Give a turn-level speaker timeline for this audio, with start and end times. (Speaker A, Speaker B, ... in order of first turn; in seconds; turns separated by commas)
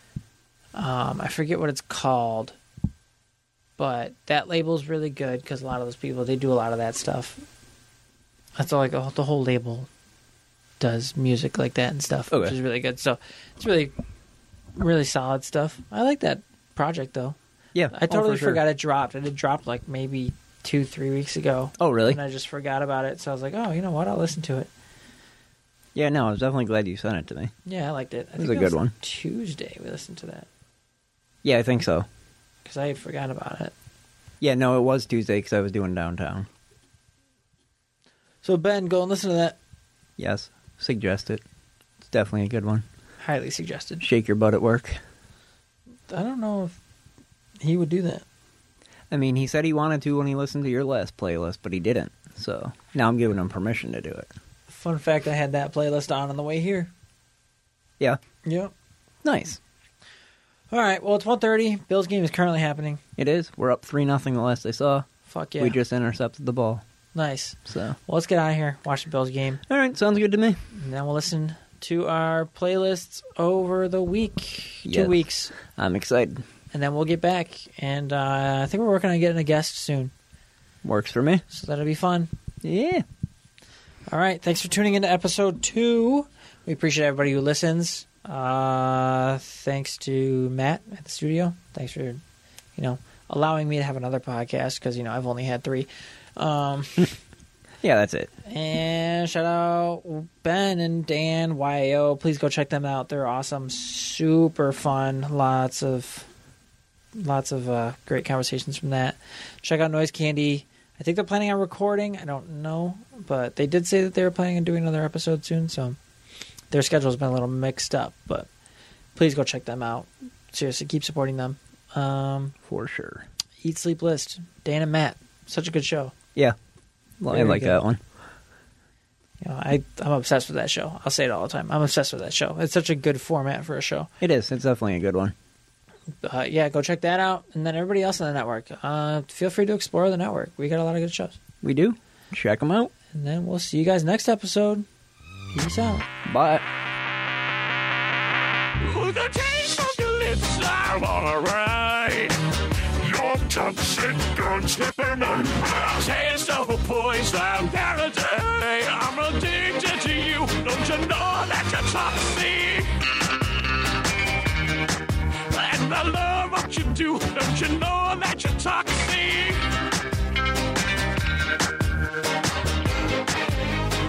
Speaker A: 0.8-2.6, Speaker A: 3.8-7.4, Speaker A: 8.6-9.9, Speaker A: 10.8-13.9, Speaker A: 14.8-17.4, Speaker B: 17.8-18.6, Speaker A: 17.9-24.7, Speaker B: 21.8-22.2, Speaker B: 25.9-27.5, Speaker A: 27.6-30.5, Speaker B: 28.4-28.9, Speaker B: 31.4-32.1, Speaker A: 32.6-33.7, Speaker B: 34.4-36.5, Speaker A: 38.4-39.6, Speaker B: 40.2-41.4, Speaker B: 42.1-42.9, Speaker A: 43.2-44.1, Speaker B: 44.0-45.0, Speaker A: 46.1-46.8, Speaker A: 47.6-48.2, Speaker B: 49.1-54.3, Speaker A: 54.7-56.9, Speaker A: 58.5-58.7, Speaker B: 59.2-59.6, Speaker A: 60.7-63.0, Speaker B: 63.2-65.1, Speaker A: 65.3-65.8, Speaker B: 65.6-66.8, Speaker A: 67.1-69.6, Speaker B: 67.7-68.0, Speaker B: 69.7-70.6, Speaker A: 70.7-75.5, Speaker B: 74.9-76.4, Speaker A: 76.7-80.1, Speaker B: 80.8-81.4, Speaker A: 81.5-82.3, Speaker B: 82.6-83.0, Speaker A: 84.1-92.2, Speaker A: 92.8-97.2, Speaker B: 97.8-98.3, Speaker A: 98.5-106.3, Speaker A: 107.2-116.0, Speaker A: 116.7-118.5, Speaker A: 119.2-122.6, Speaker B: 122.6-123.3, Speaker A: 123.6-126.2, Speaker B: 127.2-128.0, Speaker A: 127.3-127.8, Speaker A: 129.4-134.1, Speaker B: 134.2-135.3, Speaker A: 136.2-141.4, Speaker B: 141.6-142.9, Speaker A: 143.1-144.9, Speaker A: 145.5-146.1, Speaker B: 146.3-146.7, Speaker C: 148.8-162.9, Speaker C: 165.5-169.6